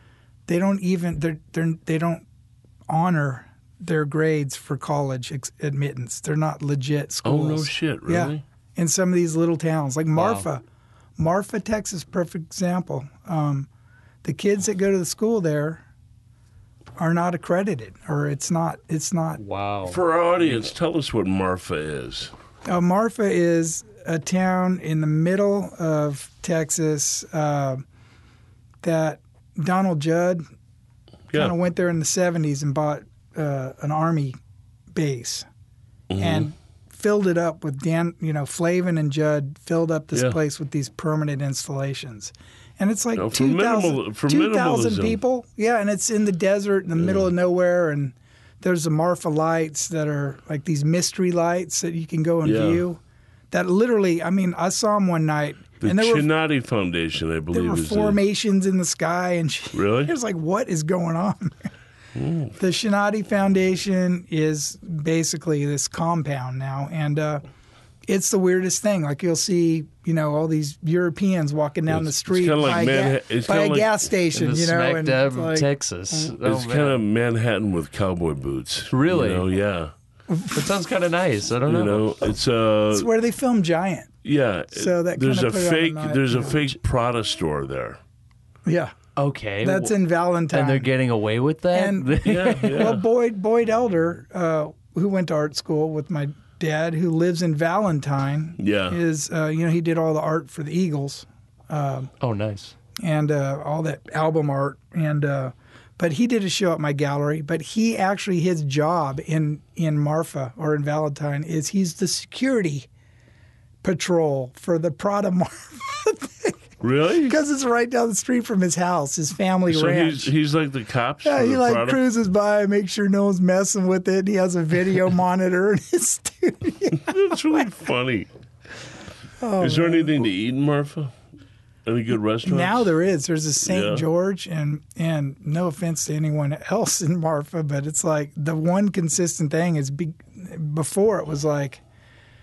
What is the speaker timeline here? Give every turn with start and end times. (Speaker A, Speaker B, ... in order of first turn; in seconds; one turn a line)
Speaker A: 0.5-2.2
Speaker A: 2.9-10.6
Speaker B: 7.2-8.4
Speaker C: 10.2-10.5
Speaker A: 11.2-13.7
Speaker A: 14.2-15.8
Speaker A: 17.0-19.4
Speaker C: 19.4-20.0
Speaker B: 19.9-22.3
Speaker A: 22.7-27.8
Speaker A: 28.8-30.4
Speaker A: 31.3-34.4
Speaker A: 34.9-35.5
Speaker B: 36.1-36.5
Speaker A: 36.2-53.0
Speaker B: 40.1-40.4
Speaker B: 43.1-45.2
Speaker B: 47.0-47.3
Speaker B: 52.4-52.9
Speaker A: 53.5-56.3
Speaker B: 55.8-58.2
Speaker A: 57.5-61.5
Speaker B: 59.7-60.1
Speaker B: 62.1-62.6
Speaker A: 62.6-67.4
Speaker A: 68.1-75.7
Speaker B: 71.9-74.1
Speaker C: 74.3-77.0
Speaker B: 76.4-79.9
Speaker C: 78.9-79.5
Speaker A: 80.3-80.8
Speaker C: 80.5-82.1
Speaker B: 81.7-83.1
Speaker A: 82.9-84.1
Speaker B: 84.2-88.0
Speaker A: 84.7-86.7
Speaker A: 88.7-89.0
Speaker C: 89.2-89.9
Speaker A: 89.6-90.9
Speaker C: 90.5-92.9
Speaker A: 91.7-102.1
Speaker B: 92.2-93.0
Speaker B: 98.6-99.0
Speaker C: 102.2-102.7
Speaker A: 103.0-112.9
Speaker A: 113.8-116.6
Speaker B: 116.8-117.4
Speaker A: 117.1-120.3
Speaker B: 119.7-122.0
Speaker A: 121.2-127.2
Speaker B: 127.0-128.3
Speaker A: 129.4-130.3
Speaker B: 129.6-131.1
Speaker B: 131.8-132.9
Speaker A: 132.4-141.8
Speaker B: 133.6-134.1